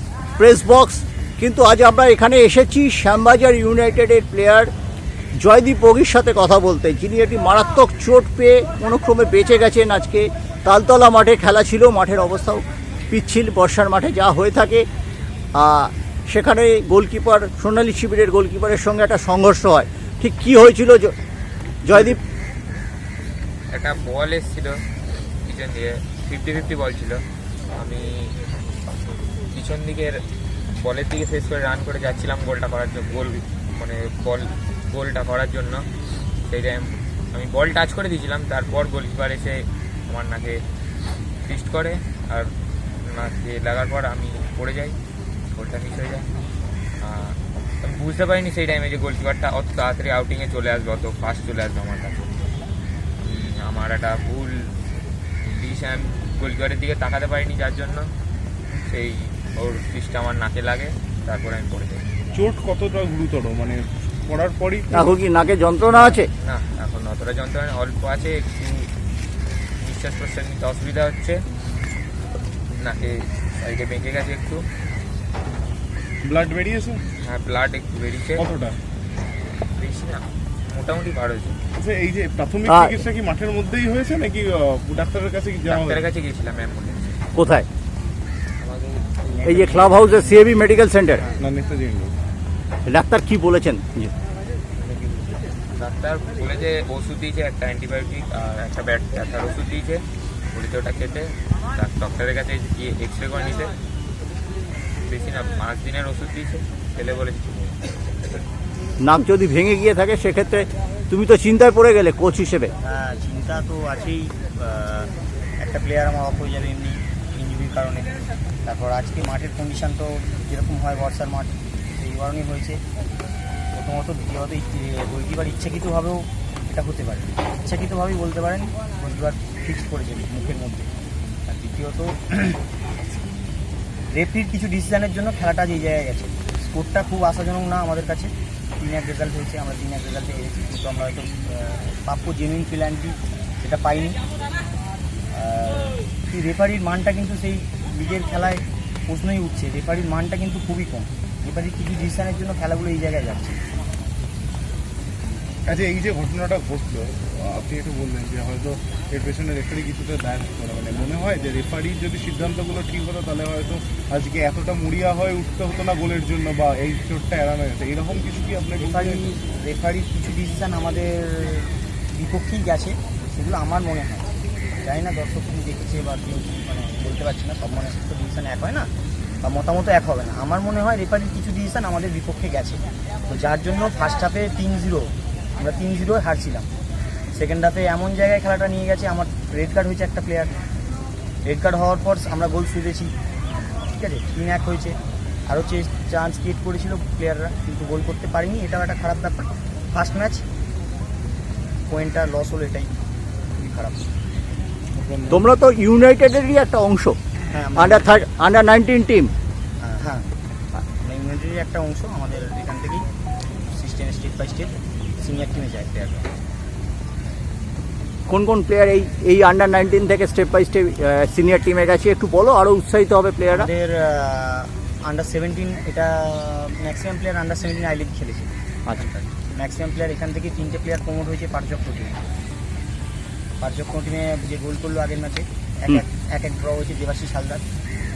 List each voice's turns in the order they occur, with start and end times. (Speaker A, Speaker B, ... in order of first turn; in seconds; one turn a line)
Speaker A: 0.4-4.7
Speaker A: 5.4-14.8
Speaker A: 15.5-21.1
Speaker A: 21.8-22.2
Speaker B: 23.7-24.8
Speaker B: 25.4-27.2
Speaker B: 27.8-28.4
Speaker B: 29.5-30.2
Speaker B: 30.7-35.8
Speaker B: 36.5-40.6
Speaker B: 41.5-42.5
Speaker B: 43.0-45.0
Speaker B: 45.5-46.3
Speaker B: 47.0-52.3
Speaker B: 53.2-54.7
Speaker B: 55.6-58.1
Speaker B: 58.9-62.0
Speaker C: 62.3-65.1
Speaker A: 64.9-66.3
Speaker B: 65.9-68.9
Speaker B: 69.8-71.4
Speaker B: 72.7-74.6
Speaker C: 76.2-77.0
Speaker B: 77.2-78.5
Speaker C: 78.4-78.8
Speaker B: 79.8-81.6
Speaker C: 81.8-86.1
Speaker A: 82.7-83.0
Speaker B: 85.7-87.2
Speaker A: 87.3-87.7
Speaker B: 88.6-90.5
Speaker D: 89.4-90.5
Speaker A: 89.4-91.2
Speaker D: 91.1-91.4
Speaker C: 91.4-92.1
Speaker A: 92.8-94.1
Speaker B: 94.8-103.7
Speaker B: 105.0-107.7
Speaker A: 109.0-112.7
Speaker D: 112.8-122.8
Speaker D: 123.7-130.9
Speaker D: 131.5-132.6
Speaker D: 134.1-144.2
Speaker D: 145.3-153.6
Speaker C: 155.7-169.3
Speaker D: 168.8-174.3
Speaker D: 174.8-178.9
Speaker D: 179.4-186.7
Speaker D: 187.3-190.5
Speaker D: 191.4-193.1
Speaker D: 193.9-194.9
Speaker D: 195.5-200.4
Speaker D: 201.9-202.9
Speaker D: 203.6-204.0
Speaker C: 204.9-205.5
Speaker A: 205.3-207.2
Speaker D: 207.5-208.2
Speaker A: 207.8-209.3
Speaker D: 209.8-213.0
Speaker D: 213.7-216.3
Speaker A: 218.3-223.7
Speaker D: 223.5-232.2
Speaker D: 233.6-237.6